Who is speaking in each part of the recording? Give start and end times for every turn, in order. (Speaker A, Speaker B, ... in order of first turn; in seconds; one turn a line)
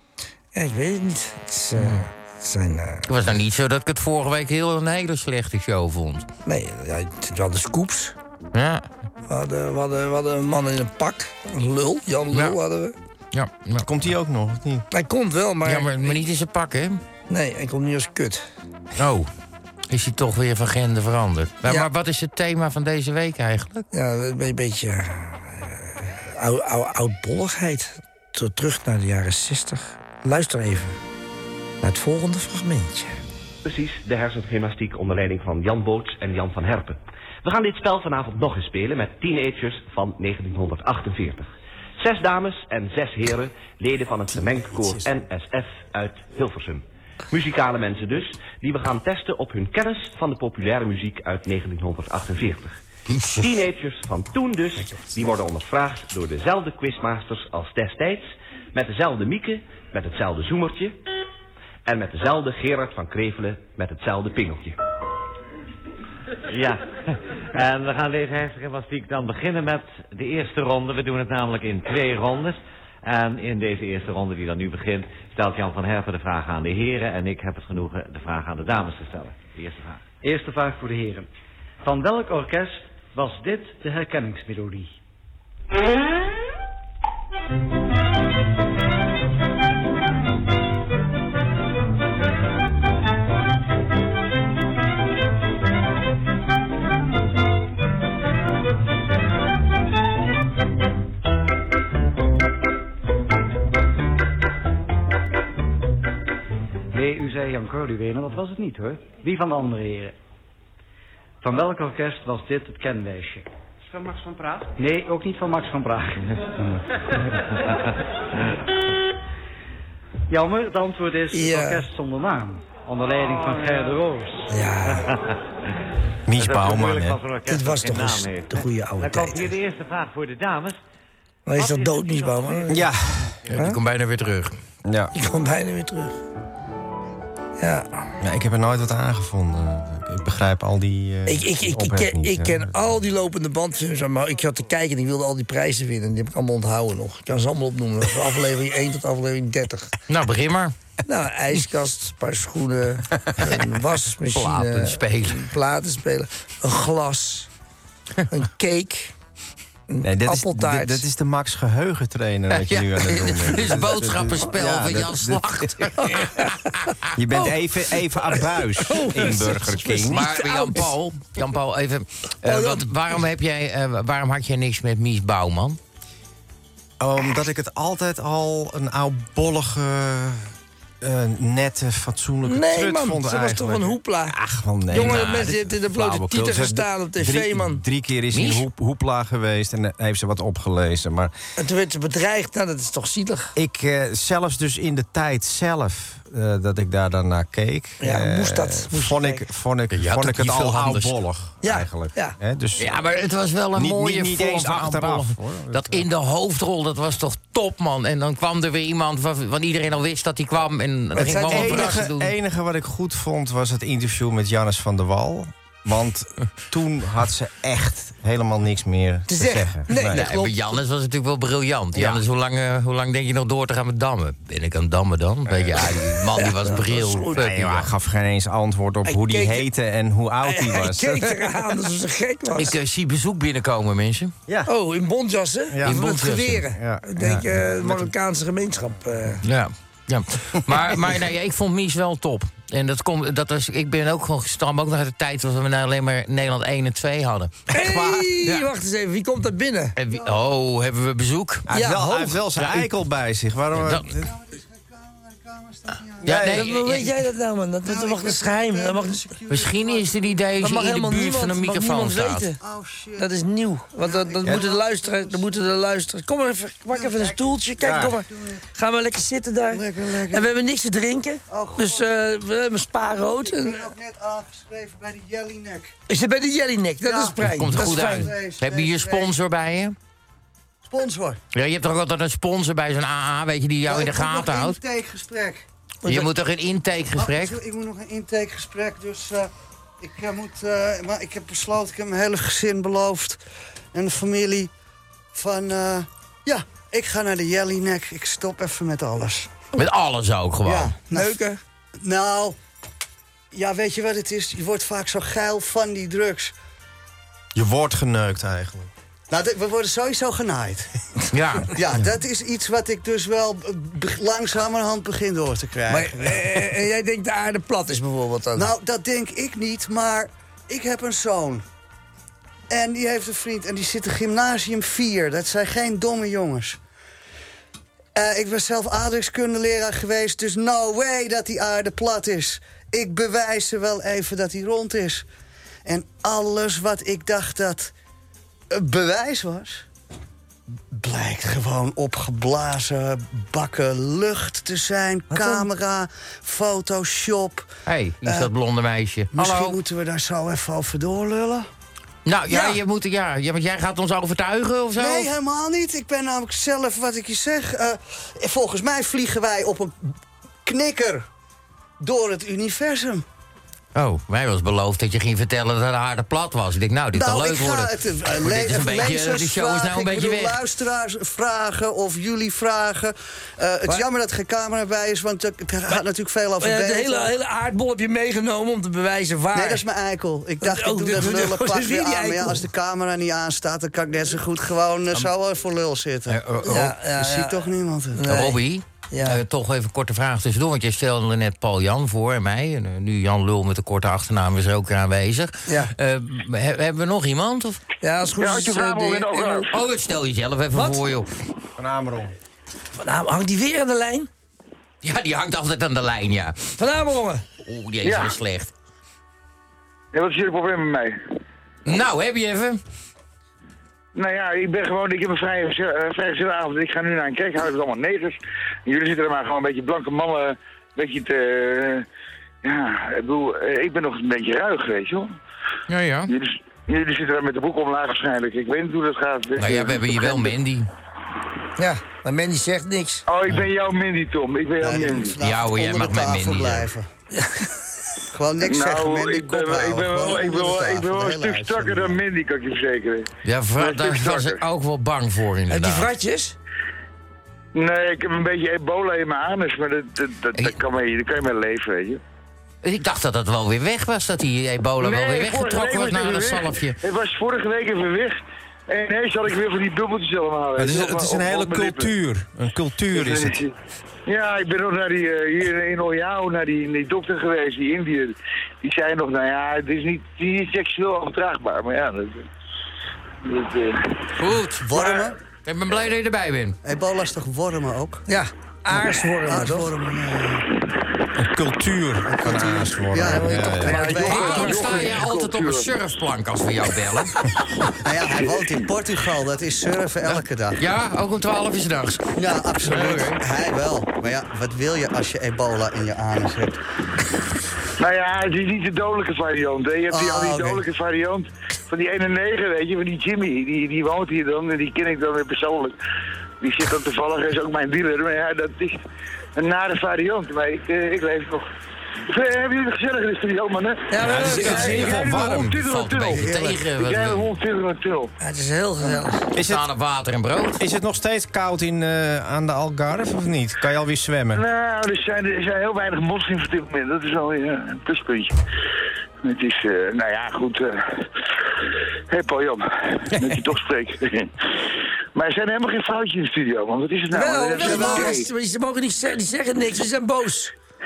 Speaker A: 0.5-3.1
Speaker B: 1.8-2.0
Speaker B: 3.1-6.3
Speaker A: 6.5-8.1
Speaker B: 8.5-8.8
Speaker A: 9.3-12.9
Speaker B: 13.3-13.9
Speaker C: 13.8-14.9
Speaker A: 14.9-16.2
Speaker B: 15.6-17.0
Speaker A: 17.3-18.4
Speaker B: 19.0-19.3
Speaker B: 19.9-23.8
Speaker A: 23.9-31.0
Speaker A: 31.8-33.2
Speaker D: 33.6-52.8
Speaker D: 53.3-61.0
Speaker D: 61.9-64.8
Speaker E: 66.5-80.0
Speaker F: 80.2-81.3
Speaker F: 81.8-84.9
Speaker F: 106.9-110.2
Speaker F: 111.4-113.5
Speaker F: 114.7-116.8
Speaker F: 120.3-124.5
Speaker A: 121.3-121.9
Speaker A: 124.5-125.1
Speaker C: 126.3-127.2
Speaker E: 126.3-130.8
Speaker A: 127.5-129.5
Speaker A: 131.4-132.8
Speaker E: 131.6-132.6
Speaker C: 132.7-133.3
Speaker B: 133.5-134.6
Speaker A: 133.5-133.8
Speaker C: 134.8-135.1
Speaker A: 135.1-136.2
Speaker A: 137.6-137.9
Speaker C: 138.2-143.0
Speaker A: 141.3-149.9
Speaker B: 150.1-150.7
Speaker A: 151.1-157.5
Speaker B: 154.3-155.5
Speaker A: 158.3-159.1
Speaker A: 159.9-161.0
Speaker C: 160.0-165.9
Speaker B: 162.5-166.9
Speaker A: 166.2-166.5
Speaker C: 167.1-170.4
Speaker A: 168.8-170.9
Speaker B: 170.1-175.8
Speaker A: 172.4-173.2
Speaker C: 177.0-191.3
Speaker A: 182.4-184.4
Speaker A: 184.9-187.8
Speaker B: 184.9-185.5
Speaker B: 188.3-188.6
Speaker A: 191.6-193.5
Speaker C: 193.6-203.0
Speaker A: 198.0-199.4
Speaker B: 199.9-201.1
Speaker A: 201.6-202.3
Speaker B: 202.8-212.3
Speaker C: 203.8-206.1
Speaker A: 211.1-212.0
Speaker C: 211.4-220.5
Speaker A: 219.3-220.4
Speaker B: 220.1-227.9
Speaker C: 221.9-222.2
Speaker C: 225.7-226.0
Speaker A: 226.3-227.4
Speaker C: 227.4-231.5
Speaker A: 229.1-229.7
Speaker A: 230.4-232.7
Speaker B: 232.6-234.3
Speaker A: 234.7-239.4
Speaker C: 235.7-238.1
Speaker B: 235.8-236.7
Speaker B: 239.4-247.6
Speaker C: 247.7-248.4
Speaker A: 247.7-249.9
Speaker B: 250.0-251.6
Speaker G: 250.1-250.4
Speaker C: 251.7-254.3
Speaker A: 251.7-252.4
Speaker B: 252.6-252.9
Speaker B: 253.8-254.1
Speaker G: 254.2-256.4
Speaker B: 256.2-257.1
Speaker C: 256.2-256.7
Speaker A: 256.4-259.2
Speaker G: 257.8-260.4
Speaker B: 259.5-262.5
Speaker A: 260.6-262.6
Speaker G: 262.6-263.3
Speaker A: 263.2-273.9
Speaker G: 264.0-265.6
Speaker G: 266.9-268.7
Speaker C: 267.8-268.1
Speaker G: 269.7-270.5
Speaker G: 271.5-272.1
Speaker G: 273.3-275.9
Speaker A: 276.1-278.3
Speaker G: 277.0-279.3
Speaker B: 277.4-279.9
Speaker G: 280.8-281.4
Speaker B: 281.5-284.8
Speaker G: 283.9-285.6
Speaker A: 286.0-286.3
Speaker B: 286.1-287.6
Speaker G: 287.1-289.5
Speaker G: 290.0-293.4
Speaker G: 293.9-294.7
Speaker G: 295.3-299.5
Speaker B: 299.8-300.9
Speaker G: 300.6-301.4
Speaker A: 301.1-301.6
Speaker G: 302.0-302.6
Speaker G: 303.5-306.5
Speaker C: 307.6-308.9
Speaker G: 309.3-310.9
Speaker B: 311.3-311.7
Speaker G: 311.7-316.6
Speaker A: 315.9-318.7
Speaker G: 318.6-321.6
Speaker G: 322.7-326.8
Speaker G: 328.1-335.2
Speaker G: 335.9-337.9
Speaker G: 338.7-339.9
Speaker G: 340.9-347.7
Speaker A: 345.3-345.7
Speaker B: 347.9-349.8
Speaker G: 349.3-351.7
Speaker B: 352.2-355.3
Speaker G: 354.9-359.9
Speaker G: 360.6-361.2
Speaker G: 362.0-363.2
Speaker B: 363.9-370.6
Speaker G: 367.1-377.3
Speaker A: 376.6-379.8
Speaker G: 379.5-388.4
Speaker A: 380.6-382.6
Speaker B: 386.3-386.8
Speaker A: 386.6-388.6
Speaker B: 388.3-397.8
Speaker A: 389.1-389.4
Speaker A: 395.6-395.9
Speaker A: 398.0-399.7
Speaker H: 398.4-399.7
Speaker B: 399.7-401.3
Speaker A: 400.7-401.0
Speaker C: 401.8-402.3
Speaker A: 403.0-404.3
Speaker B: 405.0-406.7
Speaker A: 406.8-407.4
Speaker B: 407.6-408.7
Speaker H: 408.0-408.4
Speaker H: 410.1-411.2
Speaker B: 411.9-412.8
Speaker H: 414.1-422.1
Speaker H: 422.6-425.3
Speaker B: 425.9-426.3
Speaker H: 426.3-430.6
Speaker B: 429.6-430.9
Speaker A: 431.8-433.2
Speaker H: 433.3-435.4
Speaker G: 434.8-437.1
Speaker B: 435.4-436.9
Speaker A: 437.3-437.7
Speaker G: 438.3-442.2
Speaker H: 438.6-444.6
Speaker B: 443.4-446.1
Speaker A: 445.7-446.6
Speaker H: 447.8-452.2
Speaker B: 452.8-457.0
Speaker H: 455.0-462.1
Speaker C: 460.8-463.6
Speaker H: 463.1-463.7
Speaker H: 464.3-472.5
Speaker H: 473.4-474.2
Speaker B: 474.4-476.8
Speaker G: 474.8-475.4
Speaker G: 476.8-478.2
Speaker A: 478.3-479.9
Speaker G: 478.9-480.7
Speaker C: 481.4-484.0
Speaker G: 482.3-485.2
Speaker A: 483.2-485.1
Speaker H: 483.9-485.9
Speaker B: 484.2-487.4
Speaker G: 488.0-490.8
Speaker B: 490.2-492.3
Speaker G: 492.4-496.8
Speaker B: 492.8-493.4
Speaker H: 498.0-505.9
Speaker G: 500.1-500.8
Speaker H: 506.6-509.0
Speaker H: 509.6-511.6
Speaker H: 512.3-518.3
Speaker A: 514.1-515.1
Speaker C: 514.2-515.8
Speaker B: 514.7-517.5
Speaker G: 516.3-516.8
Speaker A: 518.4-519.4
Speaker C: 519.5-519.9
Speaker B: 519.6-520.8
Speaker C: 520.8-524.6
Speaker H: 524.5-528.6
Speaker H: 529.4-531.2
Speaker H: 532.3-534.5
Speaker H: 535.4-538.5
Speaker A: 537.3-540.7